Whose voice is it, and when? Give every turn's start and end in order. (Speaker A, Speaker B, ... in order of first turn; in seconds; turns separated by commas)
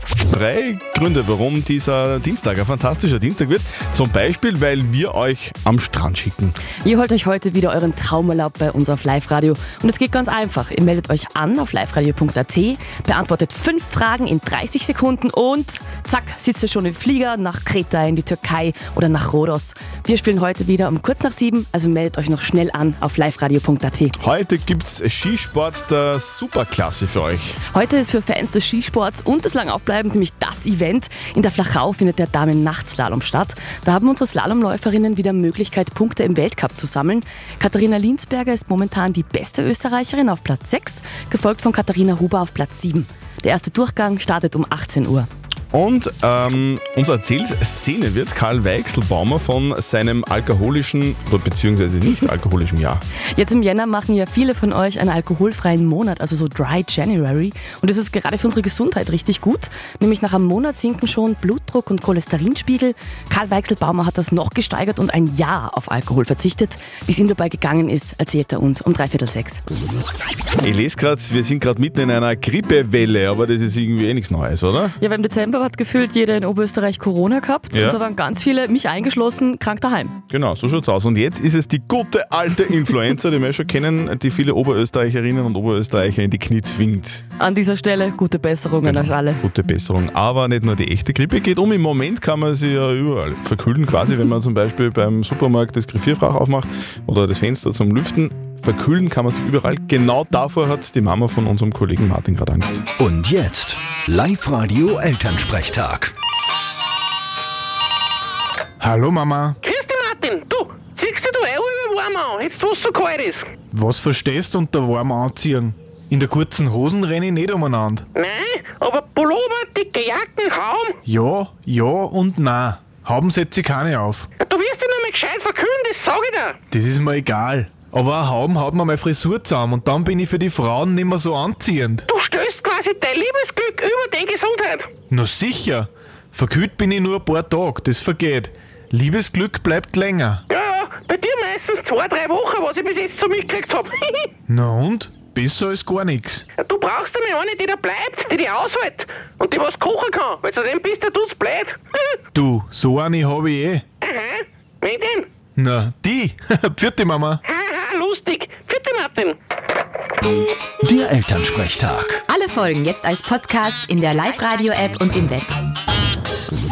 Speaker A: 0.3-6.5, Speaker B: 6.8-24.1, Speaker A: 24.2-27.6, Speaker B: 27.7-45.3, Speaker A: 45.7-53.0, Speaker B: 53.3-69.6, Speaker A: 70.6-75.0, Speaker B: 75.0-80.2, Speaker A: 77.7-78.0, Speaker A: 80.3-87.2, Speaker B: 87.4-89.4, Speaker A: 88.8-102.8, Speaker C: 103.0-106.1, Speaker D: 108.8-109.6, Speaker E: 109.6-113.5, Speaker D: 113.7-118.0, Speaker E: 118.1-121.0, Speaker D: 121.0-124.2, Speaker E: 124.4-126.6, Speaker D: 126.7-132.1, Speaker E: 132.1-134.9, Speaker D: 135.1-140.4, Speaker E: 140.5-144.3, Speaker D: 144.5-146.4, Speaker E: 146.6-152.0, Speaker D: 152.3-153.8, Speaker E: 154.0-155.3, Speaker D: 155.6-157.4, Speaker E: 157.4-159.4, Speaker C: 160.8-162.2, Speaker F: 162.3-165.4